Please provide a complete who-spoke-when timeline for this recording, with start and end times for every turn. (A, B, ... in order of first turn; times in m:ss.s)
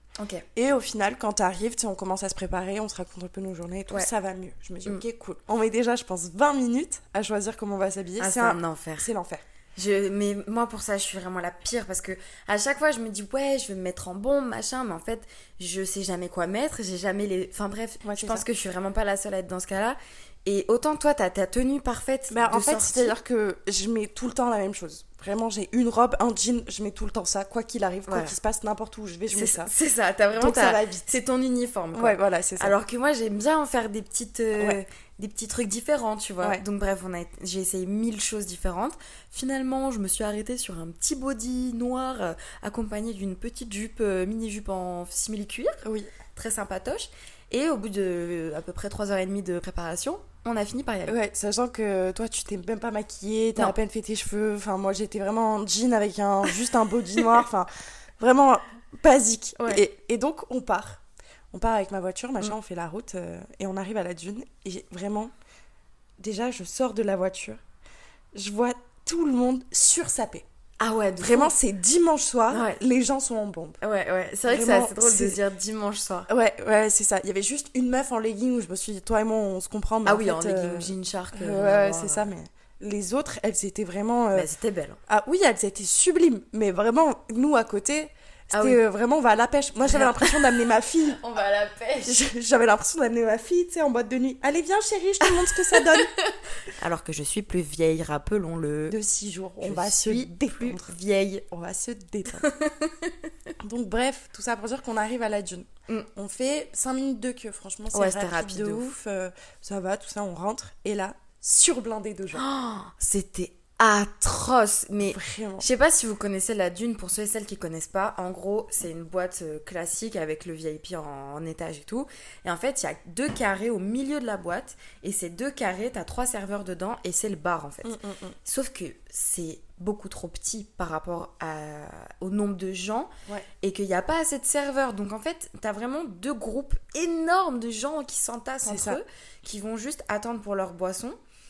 0:00.2-0:00.4 A
0:00.5-0:09.4 B
0:08.2-0:09.1 A
0:09.8-0:23.2 A
0:18.0-0:18.4 B
0:22.3-0:29.7 B
0:28.1-0:28.4 A
0:29.3-0:45.8 A
0:30.4-0:31.2 B
0:31.9-0:32.7 B
0:45.8-0:46.1 B
0:46.4-0:51.2 A
0:51.1-1:01.0 B
0:59.6-0:59.8 A
1:01.5-1:05.3 B
1:06.2-1:07.6 B
1:08.3-1:10.4 B
1:10.8-1:11.5 A
1:11.2-1:13.8 B
1:12.5-1:12.8 A
1:13.8-1:16.3 A
1:14.5-1:15.4 B
1:16.3-1:24.5 B
1:20.0-1:22.3 A
1:24.3-1:25.0 A
1:25.1-1:31.2 B
1:28.5-1:28.8 A
1:29.8-1:32.2 A
1:32.0-1:36.2 B
1:35.2-1:39.0 A
1:38.9-1:40.9 B
1:39.6-1:41.5 A
1:41.5-1:42.5 B
1:42.3-1:43.1 A
1:43.6-1:52.4 B
1:47.9-1:48.9 A
1:52.3-2:13.1 A
1:55.0-1:55.7 B
2:07.8-2:08.4 B
2:13.6-2:21.2 A
2:18.6-2:19.0 B